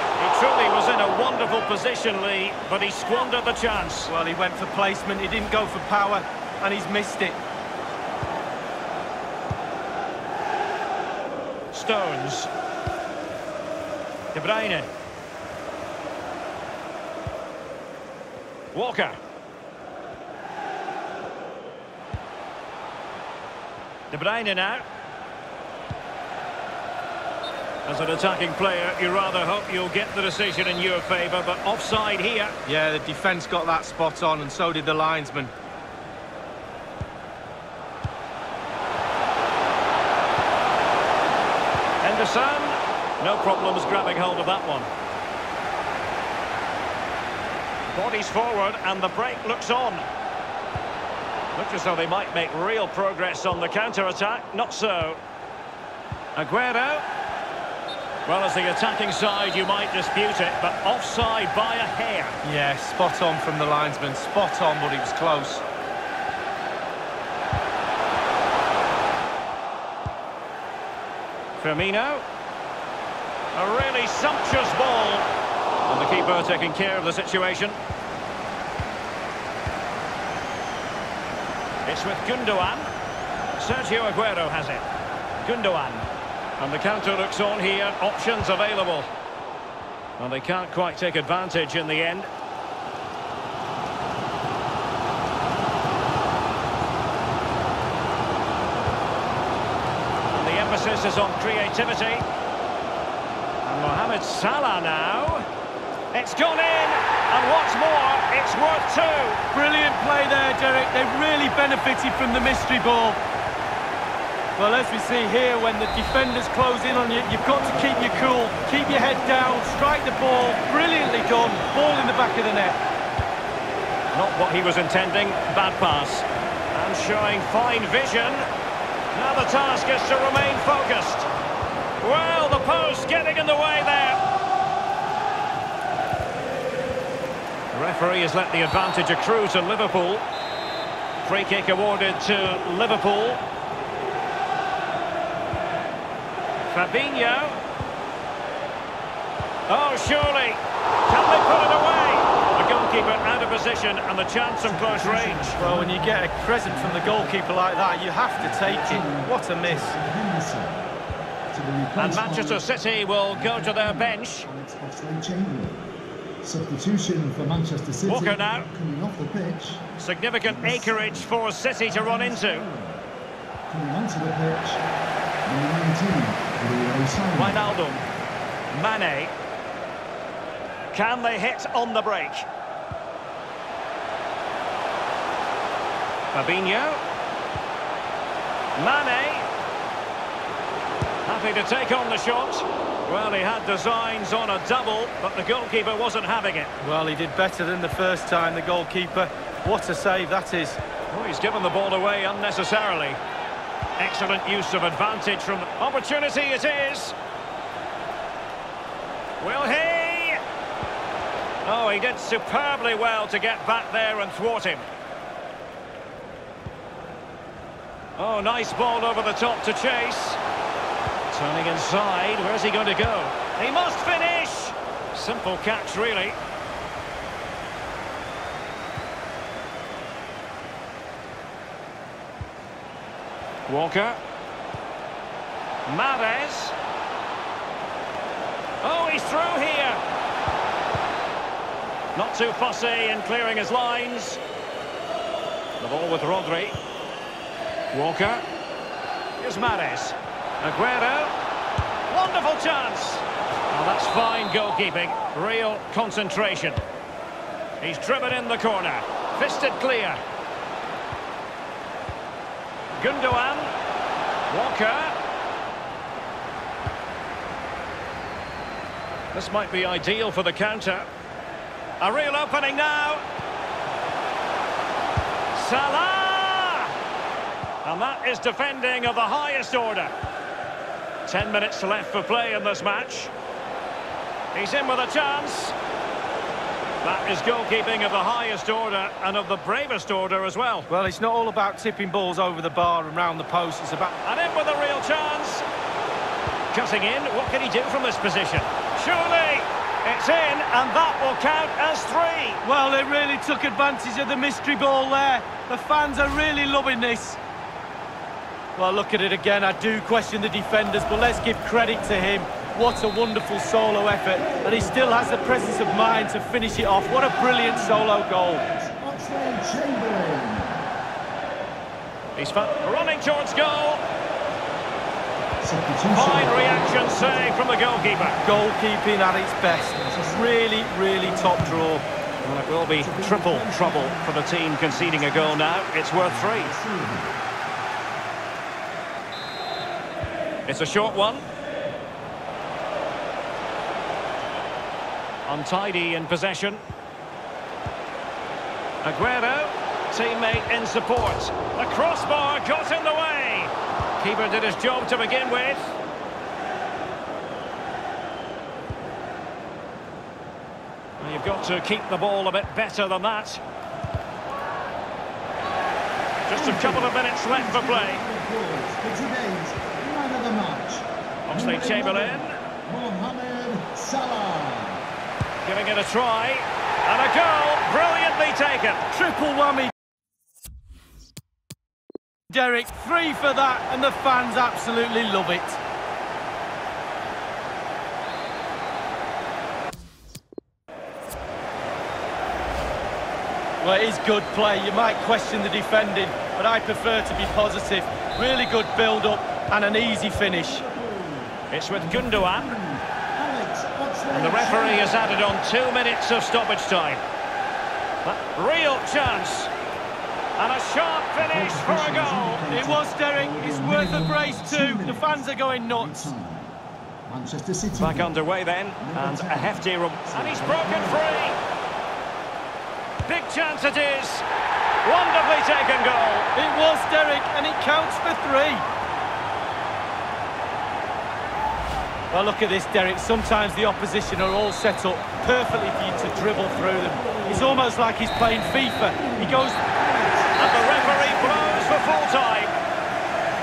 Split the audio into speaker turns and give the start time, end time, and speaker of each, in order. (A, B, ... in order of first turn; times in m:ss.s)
0:00.2-0:04.1 A
0:04.1-0:07.4 B
0:11.7-0:12.5 A
0:14.3-0:14.9 A
0:18.7-0:19.2 A
0:24.1-0:24.8 A
0:27.8-0:32.6 A
0:32.7-0:35.5 B
0:42.0-0:44.9 A
0:47.9-0:50.0 A
0:51.6-0:55.2 A
0:56.4-0:57.0 A
0:58.2-1:02.4 A
1:02.4-1:05.6 B
1:11.6-1:12.2 A
1:13.6-1:15.3 A
1:15.9-1:17.8 A
1:21.9-1:22.9 A
1:23.6-1:24.9 A
1:25.4-1:26.1 A
1:26.6-1:29.1 A
1:30.2-1:32.3 A
1:40.3-1:42.2 A
1:43.6-1:45.4 A
1:46.1-1:49.4 A
1:49.5-1:53.2 B
1:54.6-2:02.8 B
2:04.1-2:08.4 A
2:09.1-2:11.3 A
2:12.0-2:14.2 A
2:17.7-2:20.2 A
2:21.2-2:23.4 A
2:26.7-2:27.6 A
2:29.7-2:35.6 A
2:34.6-2:37.4 C
2:35.6-2:40.0 B
2:38.4-2:40.8 C
2:41.5-2:42.7 C
2:42.0-2:44.5 A
2:43.3-2:45.8 C
2:46.4-2:49.8 C
2:48.1-2:48.7 A
2:50.0-2:52.7 A
2:50.4-2:51.4 C
2:51.9-2:53.0 C
2:53.7-2:54.8 C
2:55.4-2:57.6 C
2:57.4-2:58.0 A
2:58.7-2:59.3 A
3:00.9-3:02.5 A
3:06.3-3:07.0 A
3:08.8-3:09.5 A
3:11.2-3:16.7 A
3:16.8-3:20.8 B
3:21.1-3:23.2 A
3:24.0-3:27.2 A
3:29.4-3:30.4 A
3:31.6-3:34.9 A
3:38.2-3:40.4 A
3:41.3-3:46.4 A
3:53.7-3:54.2 A
3:55.9-3:56.8 A
3:58.8-4:00.0 A
4:02.2-4:04.4 A
4:05.8-4:06.8 A
4:07.9-4:08.4 A
4:09.4-4:11.3 A
4:12.1-4:16.8 A
4:17.8-4:20.2 A
4:23.0-4:23.7 A
4:24.5-4:25.2 A
4:29.3-4:31.1 A
4:32.0-4:33.2 A
4:35.5-4:36.9 A
4:37.8-4:40.1 A
4:41.3-4:43.3 A
4:44.5-4:45.8 A
4:47.0-4:50.9 A
4:50.9-4:54.1 B
4:54.2-4:55.6 A
4:56.7-5:02.6 A
5:02.6-5:07.4 B
5:08.8-5:18.7 B
5:14.3-5:20.9 C
5:22.4-5:24.0 A
5:25.6-5:27.6 C
5:26.1-5:28.4 A
5:28.4-5:32.0 B
5:30.0-5:31.9 C
5:32.4-5:36.7 A
5:33.0-5:37.3 C
5:40.7-5:41.4 A
5:45.5-5:46.8 A
5:49.0-5:56.0 A
6:01.2-6:03.6 A
6:06.5-6:08.2 A
6:06.5-6:15.0 C
6:11.5-6:12.6 A
6:15.6-6:19.0 A
6:19.1-6:19.9 B
6:22.5-6:25.8 B
6:33.8-6:40.8 B
6:40.4-6:45.6 C
6:41.7-6:42.8 A
6:44.3-6:47.2 A
6:48.2-6:49.7 A
6:50.6-6:52.7 A
6:51.4-6:56.8 C
6:52.7-6:56.3 B
6:57.3-6:58.3 C
6:57.9-7:01.6 A
6:59.0-7:01.3 C
7:03.2-7:04.4 A
7:05.0-7:06.5 A
7:06.6-7:08.8 B
7:12.3-7:19.8 B
7:20.0-7:21.8 C
7:20.6-7:22.7 A